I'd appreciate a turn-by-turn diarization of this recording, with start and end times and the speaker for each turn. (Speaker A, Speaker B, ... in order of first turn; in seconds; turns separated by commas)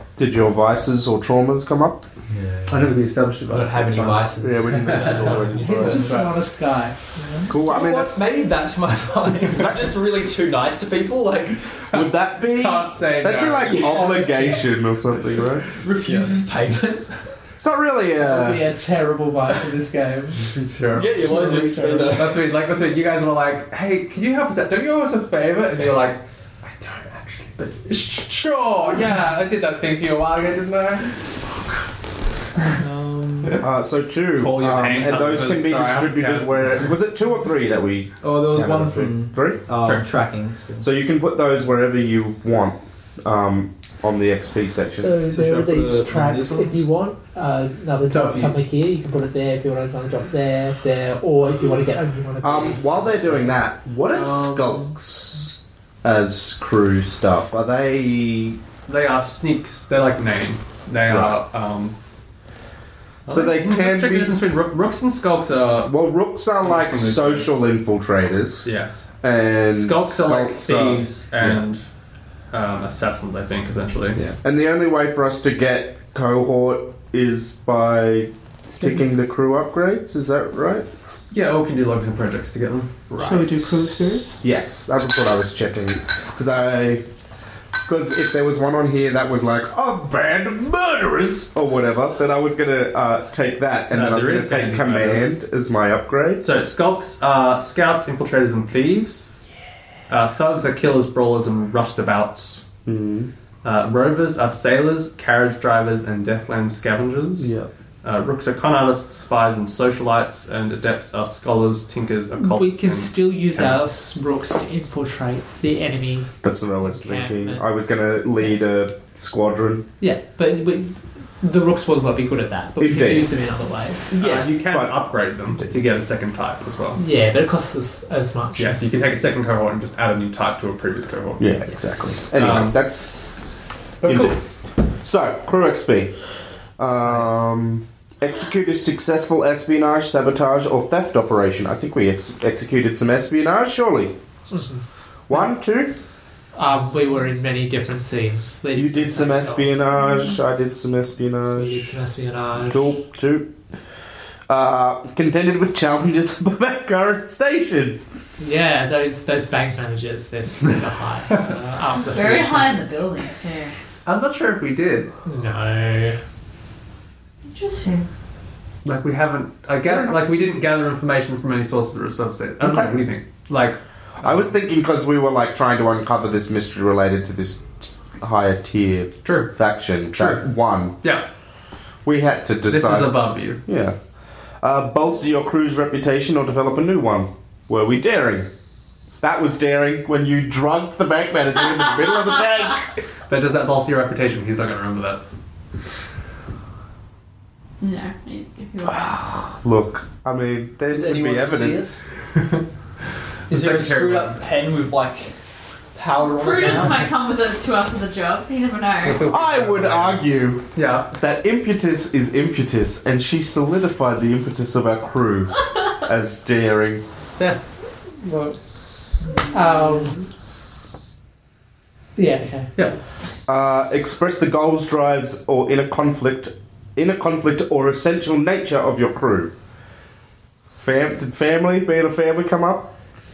Speaker A: 0.2-2.0, Speaker B: 2.3-6.3, Speaker C: 2.7-6.3, Speaker A: 4.4-6.1, Speaker D: 5.3-7.5, Speaker A: 7.5-8.2, Speaker B: 7.5-11.9, Speaker A: 9.6-9.9, Speaker C: 11.9-13.9, Speaker A: 11.9-15.7, Speaker B: 13.6-14.6, Speaker D: 14.0-14.6, Speaker B: 15.4-17.3, Speaker C: 16.0-16.4, Speaker A: 17.6-18.6, Speaker D: 18.2-20.4, Speaker C: 20.5-21.2, Speaker B: 20.9-22.4, Speaker D: 21.2-22.2, Speaker C: 22.1-31.3, Speaker B: 32.8-33.6, Speaker A: 33.6-39.6, Speaker C: 34.4-36.9, Speaker B: 38.2-40.9, Speaker C: 39.8-40.1, Speaker A: 40.8-45.1, Speaker D: 45.0-53.5, Speaker B: 45.2-46.9, Speaker C: 48.1-48.5, Speaker A: 52.4-58.6, Speaker C: 58.9-62.0, Speaker A: 61.1-61.3, Speaker C: 63.2-65.9, Speaker A: 63.3-64.3, Speaker A: 65.9-71.6, Speaker C: 66.6-67.5, Speaker C: 68.6-69.1, Speaker C: 69.7-71.8, Speaker C: 72.5-74.2, Speaker A: 74.2-80.9, Speaker D: 78.7-79.0, Speaker C: 81.3-83.8, Speaker D: 83.2-84.4, Speaker A: 84.4-87.0, Speaker A: 87.8-96.4, Speaker C: 93.9-95.4, Speaker C: 96.4-99.3, Speaker C: 100.1-102.6, Speaker A: 102.8-103.3, Speaker C: 103.6-113.9, Speaker A: 107.4-107.7, Speaker D: 112.4-117.6, Speaker A: 116.4-119.9, Speaker D: 120.0-124.2, Speaker A: 122.8-123.3, Speaker A: 124.1-125.0, Speaker C: 124.2-127.0, Speaker D: 127.0-128.8, Speaker C: 128.6-131.4, Speaker A: 131.4-133.1, Speaker C: 132.3-132.8, Speaker C: 134.0-134.4, Speaker A: 134.0-134.4, Speaker A: 135.0-136.1, Speaker A: 136.8-144.2, Speaker D: 144.5-144.8, Speaker A: 145.3-145.9, Speaker D: 146.5-150.0, Speaker A: 148.7-151.9, Speaker D: 151.5-152.9, Speaker A: 152.7-153.5, Speaker A: 154.5-158.0, Speaker D: 158.4-162.8, Speaker E: 162.1-163.8, Speaker C: 164.0-165.1, Speaker D: 165.2-166.2, Speaker E: 167.5-168.0, Speaker C: 168.8-174.5, Speaker A: 172.6-172.9, Speaker A: 174.2-180.9, Speaker C: 179.2-179.5, Speaker C: 180.1-180.4, Speaker C: 181.0-181.3, Speaker A: 182.0-184.0, Speaker C: 182.7-183.6, Speaker A: 184.6-188.5, Speaker A: 189.2-192.9, Speaker C: 193.3-195.2, Speaker E: 197.8-199.2, Speaker A: 198.8-202.0, Speaker B: 200.9-202.6, Speaker C: 203.5-204.4, Speaker B: 203.5-205.3, Speaker B: 205.9-207.1, Speaker E: 206.2-209.3, Speaker C: 209.0-211.1, Speaker A: 209.3-217.0, Speaker D: 218.2-218.6, Speaker D: 219.5-220.2, Speaker D: 222.2-222.7, Speaker A: 223.5-229.5, Speaker A: 230.8-232.9